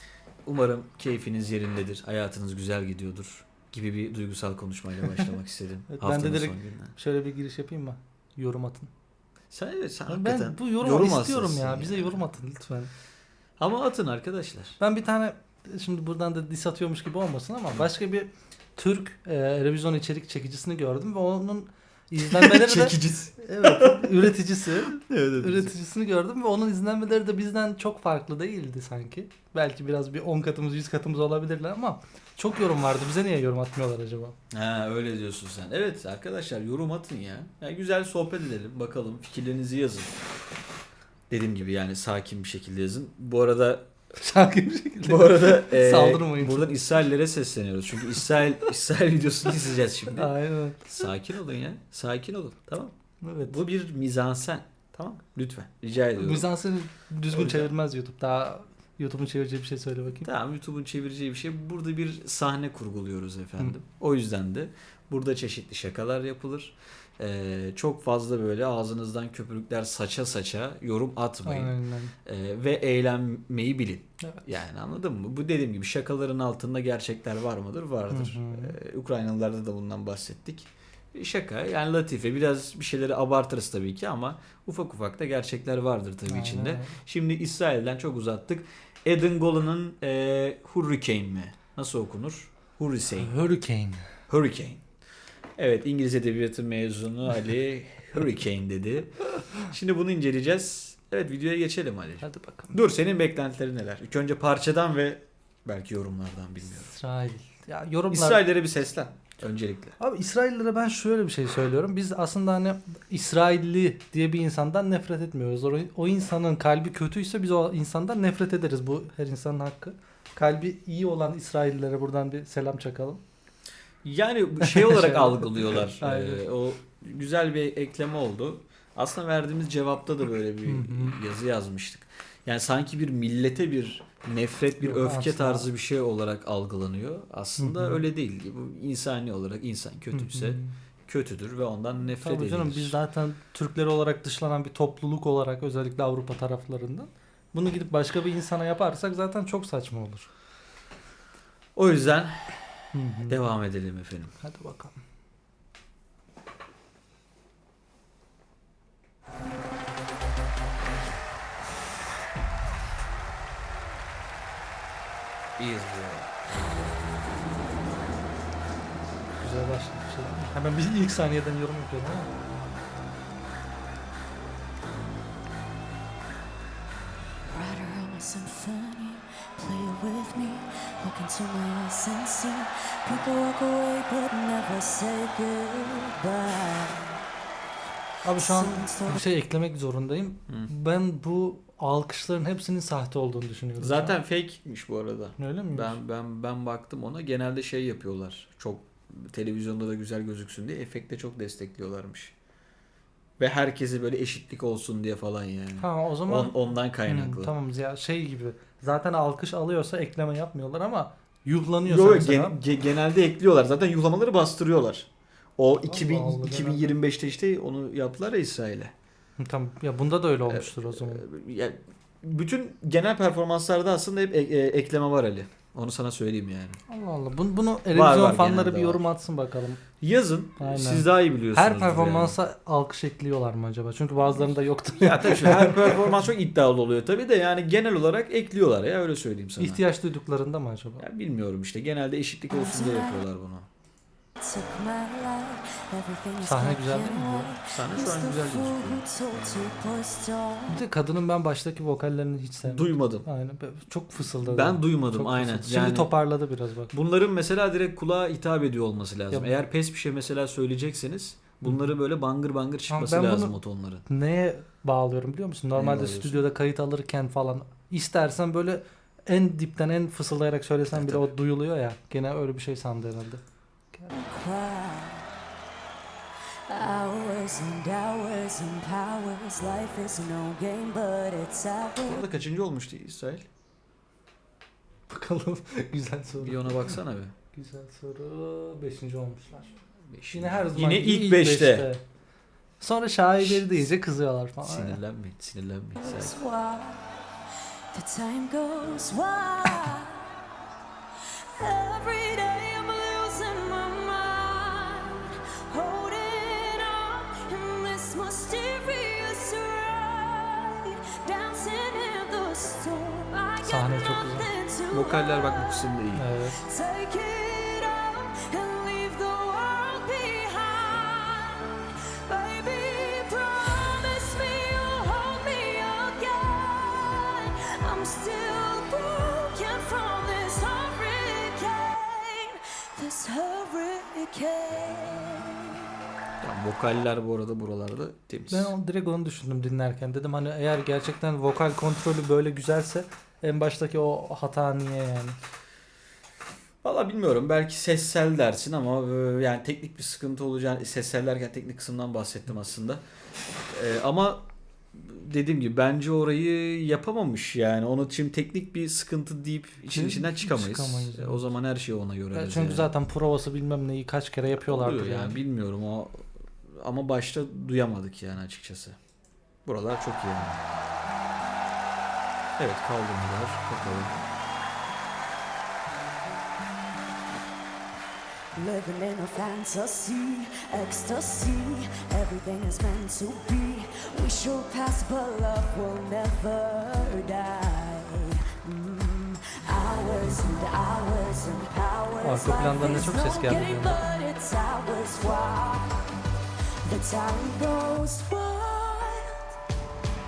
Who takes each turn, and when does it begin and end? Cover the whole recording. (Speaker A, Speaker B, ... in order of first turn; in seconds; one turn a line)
Speaker A: 0.4-6.9
Speaker B: 5.9-8.9
Speaker A: 9.5-12.2
Speaker B: 10.1-12.9
Speaker A: 13.6-14.8
Speaker B: 14.8-34.4
Speaker A: 22.2-24.3
Speaker A: 24.9-25.7
Speaker A: 34.5-40.1
Speaker A: 41.3-43.9
Speaker B: 44.1-46.8
Speaker A: 45.0-50.3
Speaker B: 50.1-51.1
Speaker A: 50.9-56.5
Speaker B: 53.2-53.6
Speaker B: 56.2-60.3
Speaker A: 57.3-57.7
Speaker A: 60.2-93.3
Speaker B: 71.4-72.1
Speaker B: 78.1-78.8
Speaker B: 86.3-87.0
Speaker B: 93.2-94.0
Speaker A: 94.3-94.8
Speaker A: 95.6-106.9
Speaker B: 102.2-102.8
Speaker B: 106.7-108.4
Speaker A: 108.1-110.0
Speaker B: 110.0-123.2
Speaker A: 124.0-142.9
Speaker B: 124.6-126.5
Speaker B: 130.6-131.2
Speaker B: 134.8-135.7
Speaker B: 137.6-138.0
Speaker B: 140.1-140.7
Speaker B: 142.0-150.3
Speaker A: 151.8-152.7
Speaker B: 152.9-153.5
Speaker A: 153.3-154.3
Speaker B: 154.4-155.0
Speaker A: 165.6-166.3
Speaker B: 169.4-172.3
Speaker C: 177.5-187.2
Speaker B: 188.2-194.2
Speaker C: 188.4-189.2
Speaker A: 193.8-202.3
Speaker B: 195.4-196.0
Speaker A: 203.4-207.5
Speaker B: 205.8-212.6
Speaker A: 211.8-218.9
Speaker B: 215.8-217.0
Speaker B: 219.4-221.2
Speaker A: 220.5-226.8
Speaker B: 226.9-229.8
Speaker A: 227.9-229.0
Speaker A: 230.0-232.4
Speaker B: 230.6-236.1
Speaker A: 234.9-239.8
Speaker B: 239.6-241.0
Speaker A: 241.0-243.7
Speaker C: 242.5-243.2
Speaker C: 244.4-250.8
Speaker B: 246.4-247.5
Speaker A: 247.7-249.0
Speaker B: 250.7-256.9
Speaker A: 252.6-253.3
Speaker A: 254.4-256.2
Speaker A: 256.9-264.1
Speaker B: 261.6-261.9
Speaker B: 262.9-274.1
Speaker A: 265.8-266.4
Speaker A: 270.9-271.3
Speaker C: 274.1-275.3
Speaker C: 276.7-282.2
Speaker A: 282.0-283.4
Speaker B: 285.1-287.0
Speaker A: 286.4-287.3
Speaker B: 287.5-289.8
Speaker A: 290.1-291.9
Speaker B: 290.3-292.0
Speaker B: 292.8-295.0
Speaker A: 293.4-293.7
Speaker A: 294.6-296.4
Speaker C: 296.0-297.2
Speaker C: 297.9-300.4
Speaker C: 301.6-315.9
Speaker B: 313.6-314.5
Speaker A: 314.9-316.2
Speaker B: 316.1-316.6
Speaker C: 316.5-336.0
Speaker A: 336.4-338.7
Speaker B: 338.5-345.4
Speaker A: 346.8-353.0
Speaker A: 353.7-362.9
Speaker B: 359.9-361.4
Speaker B: 362.3-365.4
Speaker A: 364.5-368.9
Speaker A: 369.6-370.6
Speaker A: 372.6-374.2
Speaker C: 378.5-396.1
Speaker B: 392.2-394.0
Speaker C: 396.8-399.4